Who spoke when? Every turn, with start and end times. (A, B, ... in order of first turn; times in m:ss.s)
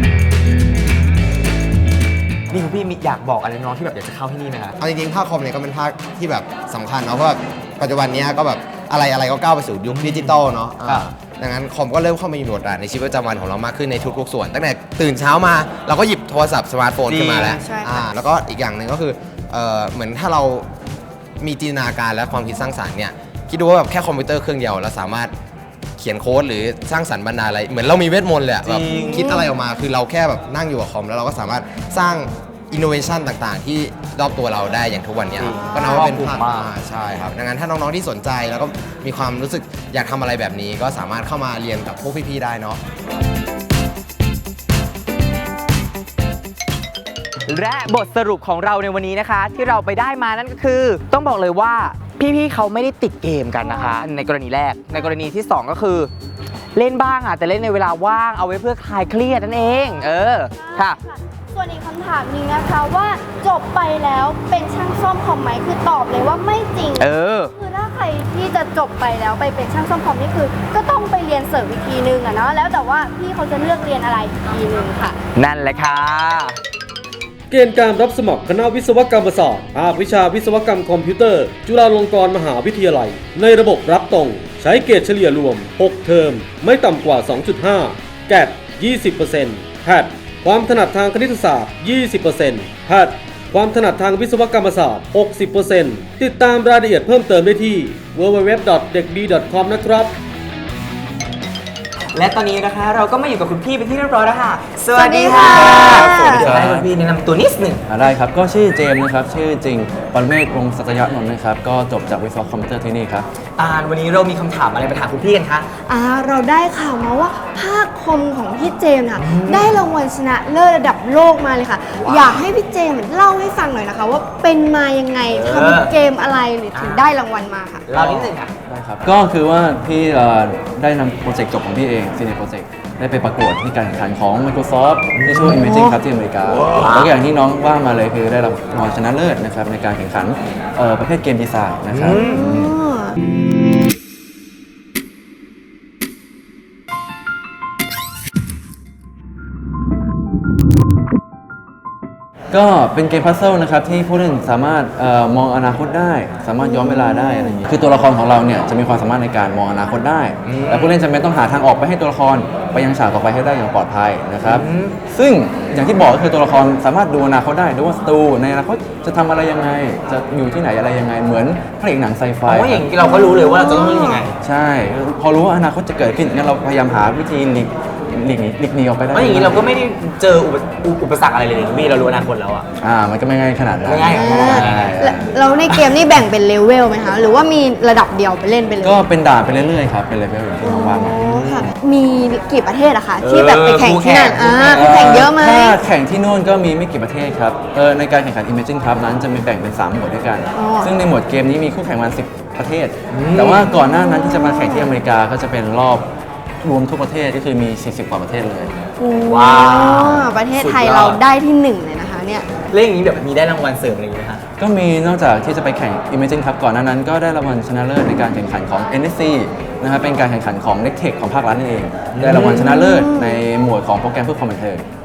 0:02.5-0:04.8 A
0:04.8-0:20.7 B
0:09.9-0:11.1 A
0:17.1-0:17.4 A
0:17.4-0:18.1 C
0:21.4-0:25.3 B
0:26.0-0:42.8 B
0:28.6-0:29.1 A
0:28.9-0:29.5 C
0:35.6-0:36.2 C
0:47.5-0:56.1 A
0:53.6-0:54.1 C
0:56.8-1:01.0 A
1:00.5-1:15.2 C
1:07.0-1:07.5 A
1:15.3-1:16.6 A
1:17.5-1:40.1 D
1:42.1-1:47.8 A
1:44.9-1:46.5 C
1:45.4-1:46.9 E
1:47.9-1:53.3 E
1:53.6-1:55.7 A
1:55.9-2:07.9 C
1:59.2-1:59.8 A
2:05.3-2:05.9 A
2:06.7-2:07.1 A
2:07.9-2:08.5 A
2:08.0-2:22.8 E
2:15.1-2:15.6 A
2:15.6-2:15.9 C
2:16.5-2:17.1 A
2:21.9-2:22.4 A
2:22.1-2:23.2 C
2:32.5-2:52.9 E
2:36.6-2:37.6 C
2:40.4-2:41.0 A
2:44.4-2:45.0 A
2:52.4-2:54.3 A
2:53.1-2:54.2 C
2:54.4-2:59.6 E
2:59.1-3:02.6 A
3:02.8-3:05.3 E
3:03.8-3:04.9 A
3:04.1-3:09.0 C
3:08.8-3:11.2 E
3:10.6-3:15.8 C
3:11.2-3:11.7 A
3:13.2-3:14.9 A
3:14.6-3:26.0 E
3:20.5-3:20.9 C
3:23.1-3:23.7 A
3:23.8-3:25.0 C
3:26.6-3:28.7 E
3:29.0-3:32.5 C
3:29.2-3:31.2 A
3:32.7-3:34.4 A
3:34.6-3:44.8 E
3:42.1-3:42.6 A
3:42.3-3:43.4 C